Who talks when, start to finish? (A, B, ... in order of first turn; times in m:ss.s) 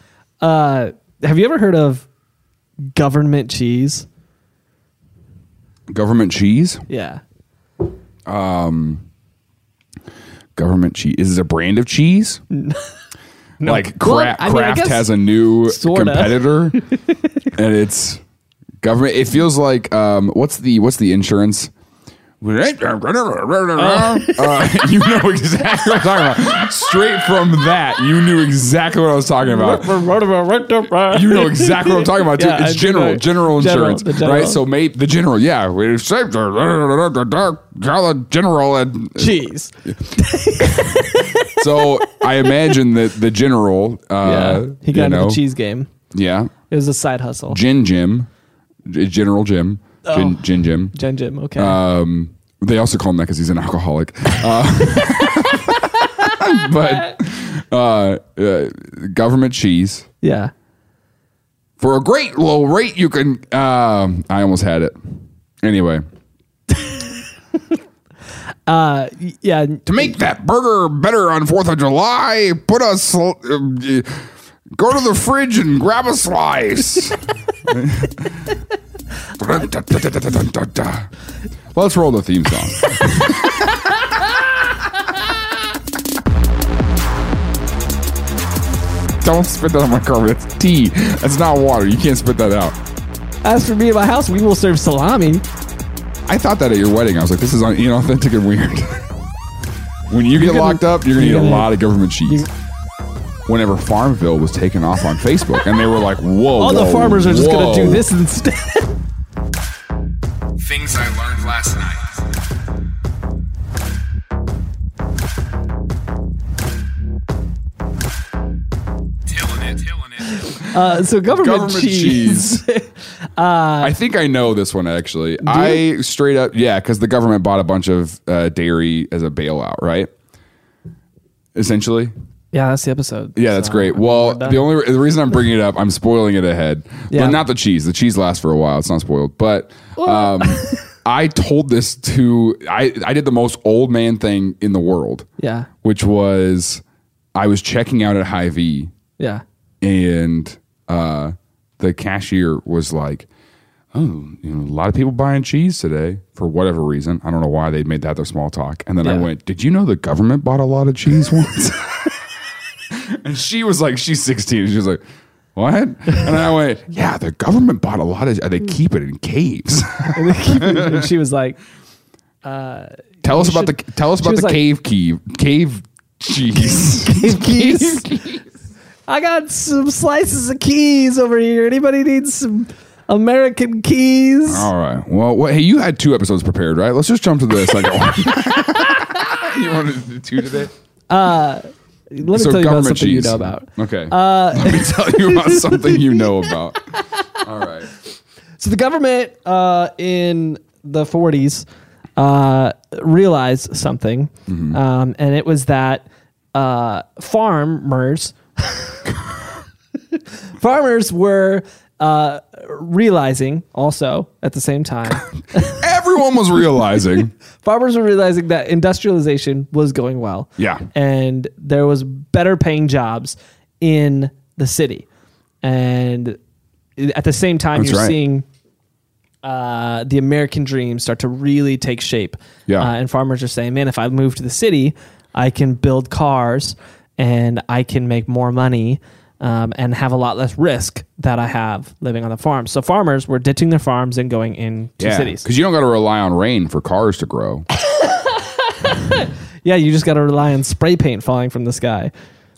0:00.4-0:02.1 A
0:02.9-0:04.1 A
0:05.9-0:06.8 B
0:06.9-0:07.2 A
0:08.3-0:09.0 B
0:10.6-0:12.4 B
0:12.5-0:12.9 A
0:13.6-0:15.1 A
0:13.6-0:16.8 B
0:15.7-0:17.2 A
0:17.6-0:18.2 B
0:18.8-0:21.7 B
0:22.4-0:29.9 B
0:23.8-0:24.9 A
0:29.4-0:34.6 A
0:31.1-0:40.0 B
0:39.2-0:41.6 A
0:41.4-0:45.4 B
0:42.4-0:42.7 A
0:44.2-0:45.9 A
0:46.1-0:46.5 B
0:46.7-0:47.6 A
0:47.5-0:48.3 B
0:48.9-0:50.9 B
0:50.0-0:50.4 A
0:50.9-0:51.8 A
0:51.6-1:00.1 B
1:00.2-1:00.5 A
1:01.8-1:05.0 B
1:05.6-1:06.0 B
1:06.8-1:07.1 A
1:08.7-1:10.1 A
1:09.9-1:18.6 B
1:19.4-1:21.1 B
1:21.7-1:23.9 B
1:29.2-1:32.8 B
1:33.4-1:35.4 A
1:36.3-1:39.0 B
1:40.1-1:42.4 B
1:40.3-1:41.7 A
1:43.5-1:48.0 B
1:46.6-1:49.0 A
1:50.6-1:52.2 B
1:59.3-2:02.6 B
2:00.2-2:03.9 A
2:03.8-2:10.1 B
2:05.4-2:05.8 A
2:11.6-2:12.1 B
2:12.5-2:14.6 A
2:13.4-2:25.3 B
2:17.1-2:17.4 A
2:20.0-2:20.8 A
2:25.4-2:25.7 A
2:25.8-2:26.8 B
2:27.4-2:28.9 B
2:29.8-2:33.3 B
2:33.9-2:42.1 B
2:42.9-2:45.0 B
2:45.6-2:51.0 B
2:50.1-2:51.6 A
2:52.4-2:54.6 A
2:53.2-2:58.4 B
2:56.7-2:58.2 A
2:59.1-3:04.7 A
3:04.5-3:10.7 B
3:11.1-3:16.2 A
3:12.2-3:17.9 B
3:18.6-3:21.7 A
3:22.2-3:29.0 A
3:24.5-3:24.8 B
3:30.1-3:35.8 A
3:35.6-3:37.3 B
3:37.6-3:45.1 A
3:40.6-3:40.8 B
3:45.6-3:46.4 A
3:47.0-3:48.5 A
3:47.8-3:48.2 B
3:49.4-4:05.4 A
4:05.0-4:07.7 B
4:08.0-4:12.1 A